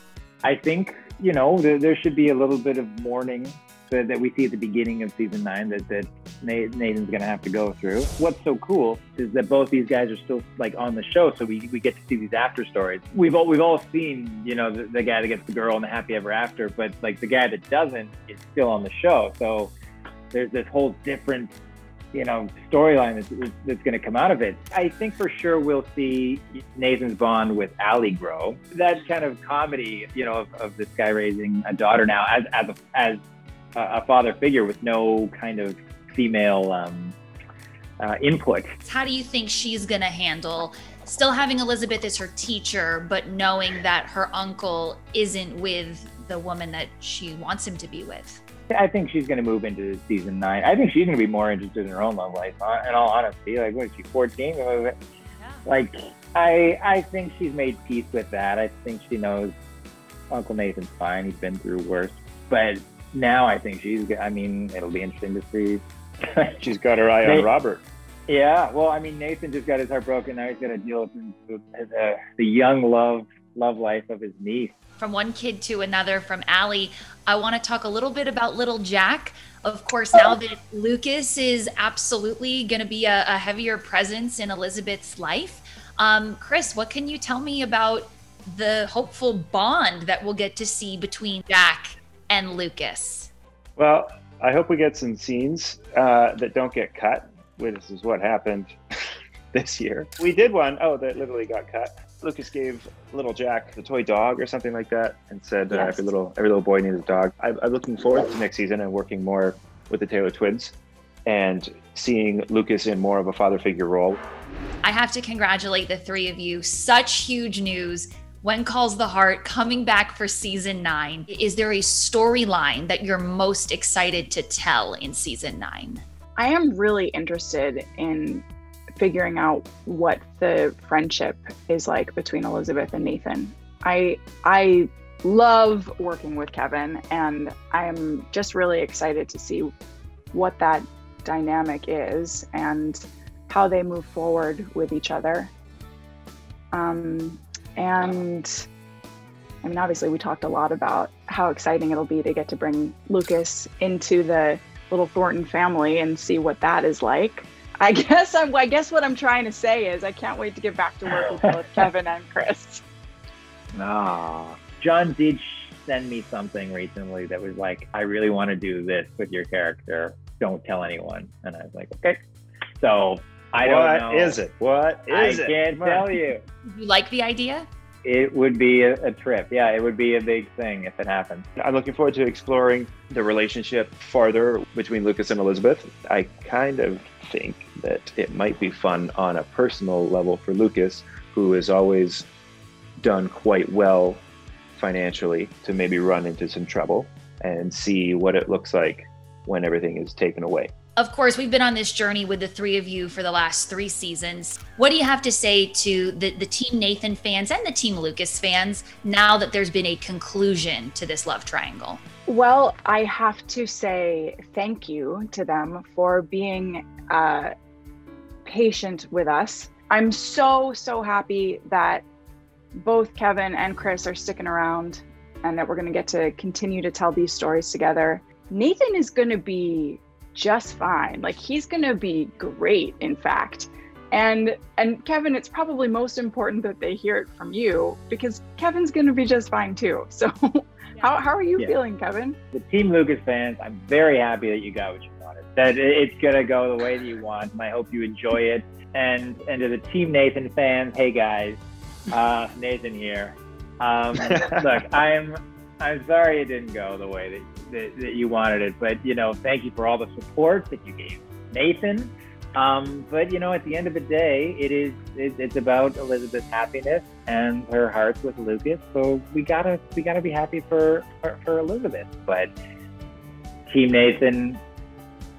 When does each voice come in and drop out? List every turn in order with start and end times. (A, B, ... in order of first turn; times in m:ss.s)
0:00.4-0:19.7 A
0:20.3-0:21.5 A
0:22.1-0:33.2 A
0:33.8-0:37.2 A
0:38.0-0:38.7 A
0:38.8-0:48.4 B
0:48.7-0:55.0 A
0:55.7-0:59.5 A
1:00.3-1:06.6 A
1:06.6-1:07.8 C
1:07.2-1:07.5 A
1:08.3-1:14.8 A
1:15.0-1:33.3 B
1:33.8-1:38.8 C
1:39.5-1:50.8 C
1:45.7-1:46.0 D
1:51.3-1:54.2 C
1:54.8-2:06.0 B
2:06.4-2:08.4 D
2:09.0-2:19.7 D
2:20.3-2:25.5 D
2:26.7-2:28.6 D
2:29.6-2:42.8 D
2:41.1-2:41.8 A
2:43.7-2:52.2 A
2:52.8-2:54.4 A
2:53.6-2:56.2 C
2:55.1-2:56.4 A
2:56.6-2:57.7 B
2:58.0-3:01.5 A
3:01.6-3:12.3 C
3:13.0-3:14.2 C
3:14.8-3:20.7 C
3:21.0-3:32.0 B
3:32.3-3:37.5 D
3:38.5-3:42.0 D
3:42.8-4:02.4 D
4:02.5-4:11.6 A
4:12.1-4:32.5 A
4:33.7-4:34.6 A